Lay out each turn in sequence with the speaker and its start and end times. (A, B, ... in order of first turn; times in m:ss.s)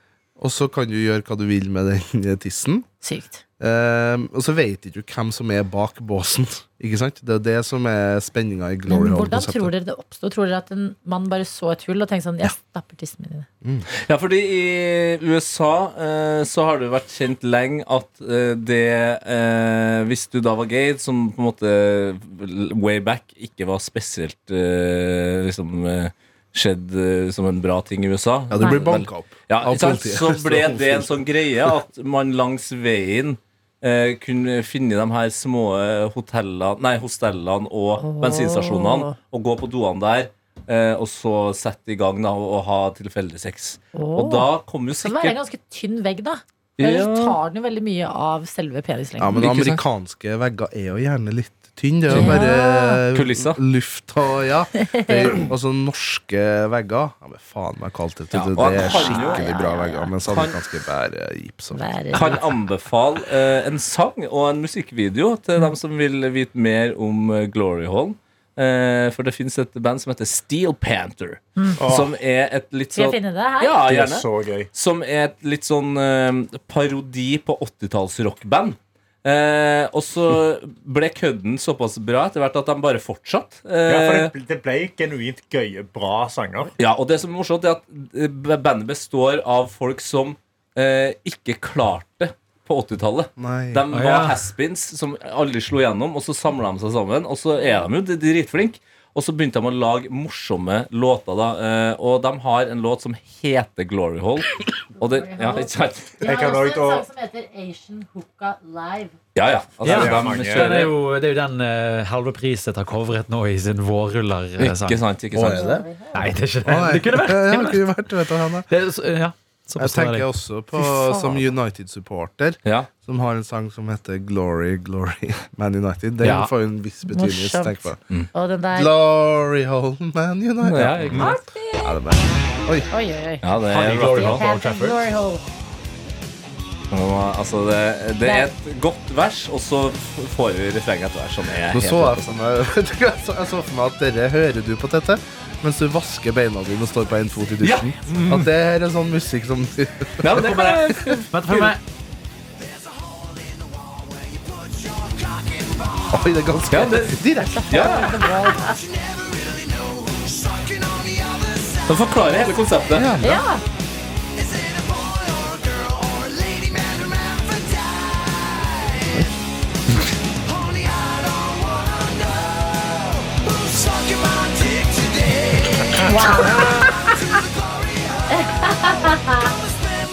0:00.4-0:02.8 A
0:03.0-0:03.4 B
0:03.6-0:09.7 A
0:08.9-0:13.5 B
0:13.9-0:45.4 C
0:28.5-0:31.2 A
0:28.6-0:28.9 B
0:38.0-0:39.2 B
0:44.0-0:49.6 B
0:46.8-0:47.4 C
0:49.2-1:01.9 A
0:49.4-0:49.8 C
0:52.1-0:52.5 C
0:52.1-0:53.0 B
0:53.1-0:53.6 C
0:54.8-0:55.5 B
0:58.3-0:59.5 C
0:58.8-1:00.1 B
1:00.2-1:00.6 C
1:01.7-1:02.4 B
1:02.1-1:24.3 C
1:11.6-1:11.8 B
1:11.8-1:12.1 D
1:12.9-1:13.8 B
1:13.8-1:14.7 D
1:23.9-1:26.7 D
1:26.8-1:46.3 C
1:33.4-1:33.8 A
1:33.9-1:34.4 E
1:37.6-1:37.9 B
1:45.0-1:49.2 B
1:46.2-1:47.1 D
1:49.4-1:51.0 C
1:49.8-1:55.0 E
1:49.8-1:50.8 D
1:54.6-1:55.8 C
1:55.3-1:55.9 A
1:55.4-1:56.4 B
1:56.1-1:57.9 E
1:56.6-1:58.7 A
1:58.7-2:00.3 E
1:59.8-2:08.0 A
2:00.8-2:01.5 B
2:02.6-2:02.9 C
2:06.2-2:06.5 E
2:07.1-2:08.9 B
2:08.7-2:12.9 A
2:10.6-2:11.4 C
2:11.1-2:11.9 B
2:12.9-2:13.5 B
2:13.4-2:14.4 C
2:13.6-2:15.1 E
2:14.1-2:15.4 B
2:16.9-2:22.4 C
2:18.2-2:18.5 B
2:21.7-2:30.4 A
2:27.6-2:28.0 C
2:28.1-2:28.5 D
2:30.2-2:31.8 C
2:30.3-2:31.8 E
2:36.1-2:38.0 A
2:36.7-2:38.4 C
2:37.4-2:38.8 B
2:41.8-2:43.2 C
2:42.9-2:43.4 A
2:43.2-2:43.6 B
2:55.9-2:57.2 B
2:58.3-2:59.6 B